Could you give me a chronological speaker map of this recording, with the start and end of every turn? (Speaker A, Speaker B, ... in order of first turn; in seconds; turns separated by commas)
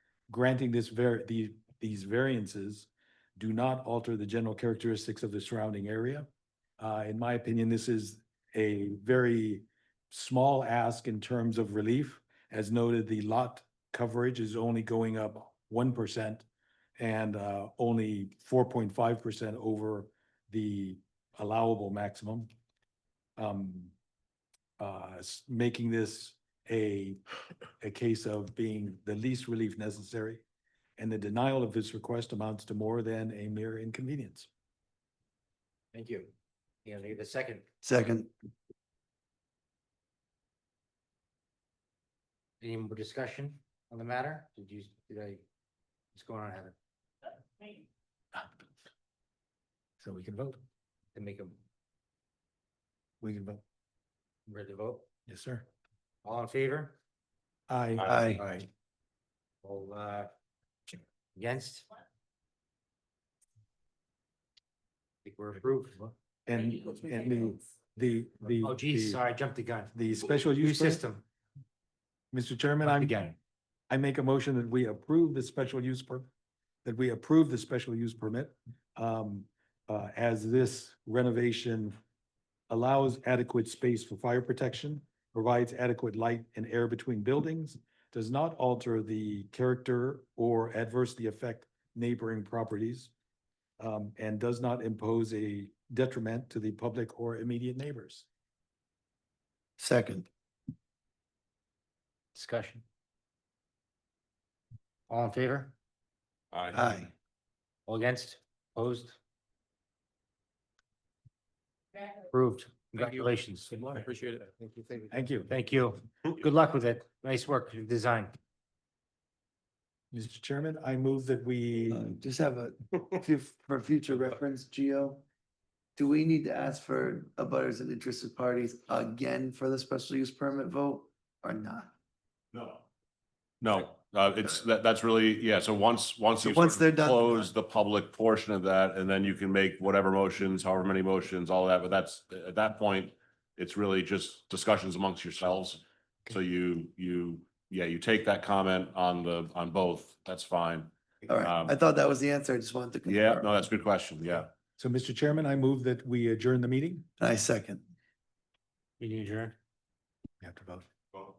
Speaker A: 0.3-16.5, Speaker A: 17.0-22.5, Speaker A: 23.4-23.9, Speaker A: 24.8-27.2, Speaker A: 27.8-30.4, Speaker A: 31.0-34.5, Speaker B: 35.9-36.3, Speaker B: 36.9-37.7, Speaker C: 37.8-38.3, Speaker B: 42.6-45.4, Speaker B: 46.1-46.8, Speaker A: 50.0-50.6, Speaker B: 51.1-51.6, Speaker A: 53.2-53.6, Speaker B: 54.5-55.1, Speaker A: 55.3-55.6, Speaker B: 56.2-57.0, Speaker A: 57.7-58.7, Speaker C: 58.1-58.4, Speaker B: 59.6-60.3, Speaker B: 61.4-61.9, Speaker B: 65.2-66.1, Speaker A: 66.5-69.2, Speaker B: 68.6-71.2, Speaker A: 69.9-71.0, Speaker A: 72.3-73.2, Speaker B: 72.8-73.4, Speaker A: 73.9-76.3, Speaker A: 76.8-82.0, Speaker A: 82.7-93.1, Speaker A: 93.8-98.3, Speaker C: 99.8-100.3, Speaker B: 102.3-102.8, Speaker B: 105.1-105.8, Speaker C: 106.7-107.1, Speaker B: 107.9-109.2, Speaker B: 112.2-114.1, Speaker A: 115.1-115.5, Speaker B: 115.5-118.4, Speaker A: 120.1-122.1, Speaker C: 121.9-125.2, Speaker C: 126.0-131.9, Speaker D: 132.5-132.8, Speaker D: 133.6-151.8, Speaker C: 136.4-137.5, Speaker C: 151.3-153.5, Speaker D: 153.1-154.5, Speaker A: 154.8-157.1, Speaker C: 157.2-157.8, Speaker B: 159.0-159.6, Speaker A: 160.4-160.9